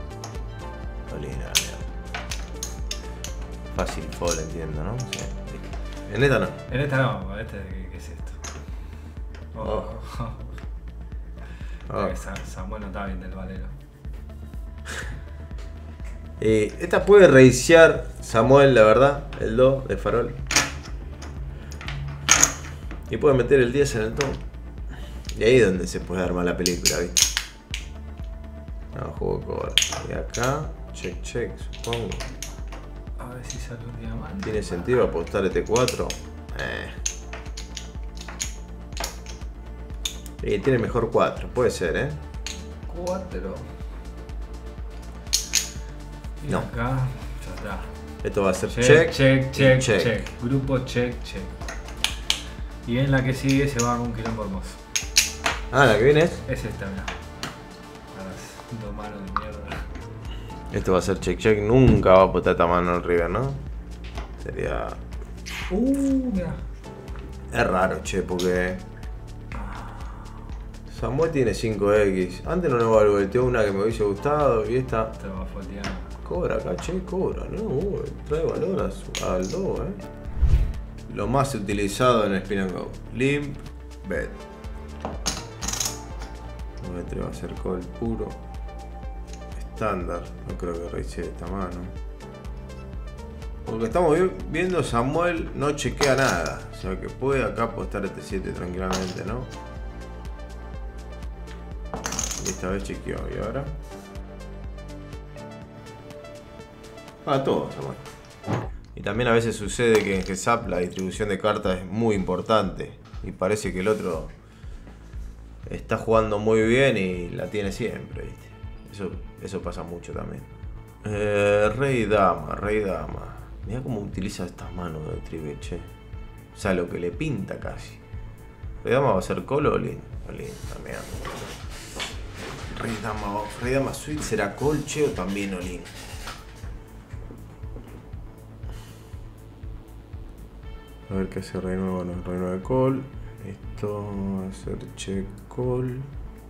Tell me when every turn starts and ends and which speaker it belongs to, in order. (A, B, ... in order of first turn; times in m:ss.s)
0:01.1-0:01.9 A
0:03.7-0:06.6 A
0:06.7-0:08.4 B
0:09.5-0:10.5 B
0:09.6-0:09.9 A
0:11.9-0:12.2 A
0:11.9-0:13.7 B
0:16.4-0:20.4 A
0:23.1-0:24.4 A
0:25.3-0:27.2 A
0:28.9-0:32.3 A
0:33.2-0:35.1 B
0:34.4-0:37.0 A
0:40.4-0:42.2 A
0:42.9-0:43.7 B
0:46.4-0:47.9 B
0:48.2-0:50.2 A
0:48.7-0:51.5 B
0:52.8-0:54.8 B
0:55.7-0:56.4 A
0:56.5-0:57.1 B
0:58.1-0:59.9 B
1:00.7-1:03.6 A
1:04.4-1:05.0 A
1:05.7-1:06.6 B
1:07.5-1:08.8 A
1:09.5-1:10.3 B
1:10.9-1:15.1 A
1:15.2-1:16.1 B
1:16.2-1:20.0 A
1:21.1-1:24.4 A
1:26.8-1:28.4 A
1:29.6-1:31.9 A
1:33.6-1:39.5 A
1:42.4-1:43.7 A
1:47.2-1:48.1 A
1:48.9-1:54.3 A
1:55.6-2:00.5 A
2:01.0-2:05.9 A
2:06.5-2:08.0 A
2:08.8-2:11.2 A
2:12.7-2:15.9 A
2:21.1-2:26.1 A